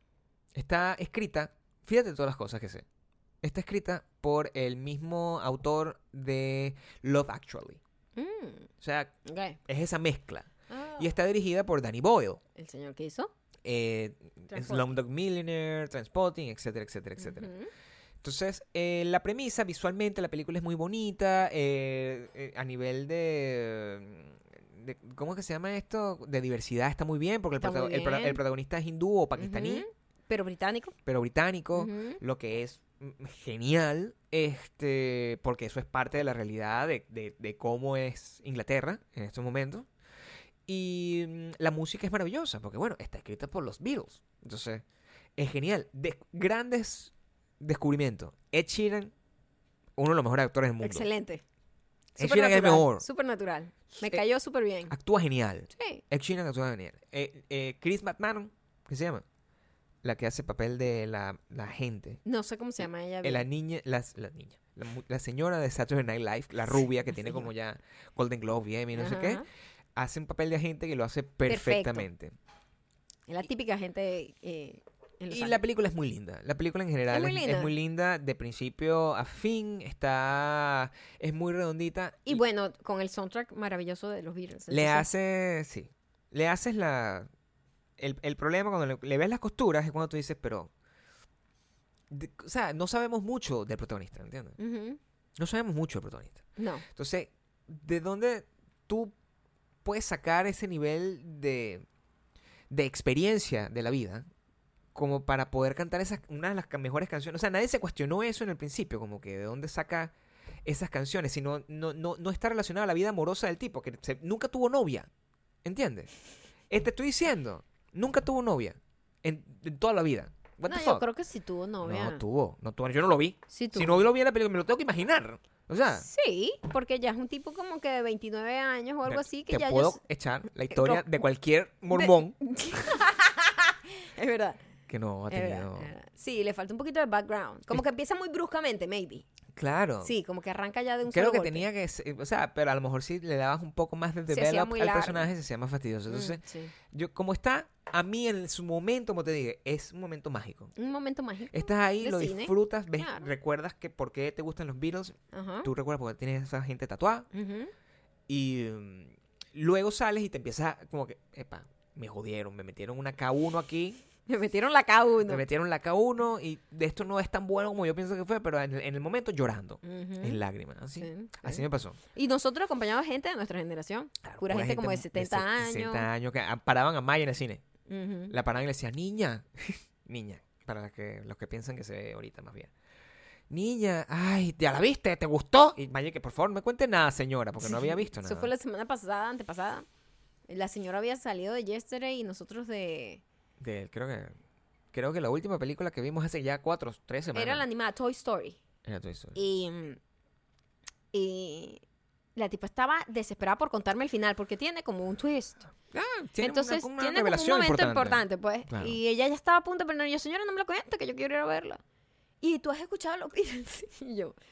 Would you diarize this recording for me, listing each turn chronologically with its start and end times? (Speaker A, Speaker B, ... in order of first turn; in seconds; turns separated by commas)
Speaker A: 0.6-2.9, Speaker A: 3.4-7.8, Speaker B: 8.2-8.7, Speaker A: 8.8-9.1, Speaker B: 9.2-9.6, Speaker A: 9.7-12.4, Speaker B: 10.7-11.1, Speaker B: 12.6-13.3, Speaker A: 13.6-17.5, Speaker B: 14.5-14.9, Speaker B: 17.2-17.7, Speaker A: 18.2-29.9, Speaker B: 27.6-28.4, Speaker B: 29.4-30.9, Speaker A: 31.1-39.9, Speaker B: 31.8-32.2, Speaker A: 40.7-44.8, Speaker A: 45.4-49.1, Speaker A: 50.0-51.1, Speaker B: 50.8-51.4, Speaker A: 52.2-53.0, Speaker B: 52.2-54.9, Speaker A: 54.9-59.2, Speaker B: 55.7-56.0, Speaker A: 60.0-62.2, Speaker B: 62.2-63.5, Speaker A: 63.2-69.4, Speaker B: 67.1-67.5, Speaker B: 69.0-69.5, Speaker A: 70.0-72.3, Speaker B: 71.5-72.1, Speaker B: 73.3-75.6, Speaker A: 75.3-82.4, Speaker B: 77.1-77.7, Speaker B: 82.3-85.1, Speaker A: 84.7-87.3, Speaker A: 88.0-90.7, Speaker A: 92.1-94.6, Speaker B: 94.6-95.0, Speaker A: 95.4-99.1, Speaker B: 96.6-96.8, Speaker A: 99.8-101.9, Speaker A: 102.7-104.3, Speaker A: 104.9-110.1, Speaker A: 110.6-115.1, Speaker A: 115.6-116.1, Speaker A: 116.7-121.0, Speaker B: 120.7-122.2, Speaker A: 121.8-126.1, Speaker B: 123.5-124.0, Speaker B: 125.9-130.0, Speaker A: 129.1-132.4, Speaker B: 130.7-131.1, Speaker B: 131.9-134.6, Speaker A: 134.9-135.9, Speaker B: 135.3-139.3, Speaker A: 139.6-140.1, Speaker B: 140.0-141.7, Speaker A: 141.1-150.7, Speaker B: 144.3-145.3, Speaker B: 146.1-146.7, Speaker B: 150.8-153.3, Speaker A: 151.5-157.3, Speaker B: 155.3-155.7, Speaker B: 157.3-157.7, Speaker A: 158.3-164.0, Speaker B: 164.3-165.4, Speaker A: 165.3-172.0, Speaker B: 169.8-170.4, Speaker B: 171.0-176.1, Speaker A: 174.2-177.6, Speaker B: 177.9-178.3, Speaker A: 178.3-182.7, Speaker A: 183.5-188.5, Speaker B: 187.6-189.9, Speaker B: 190.5-193.2, Speaker A: 193.6-194.4, Speaker A: 194.9-197.7, Speaker B: 197.3-198.6, Speaker A: 198.8-199.4, Speaker B: 199.3-200.0, Speaker B: 201.1-201.8, Speaker B: 202.4-205.7, Speaker A: 205.9-209.0, Speaker B: 206.4-211.8, Speaker B: 212.4-214.4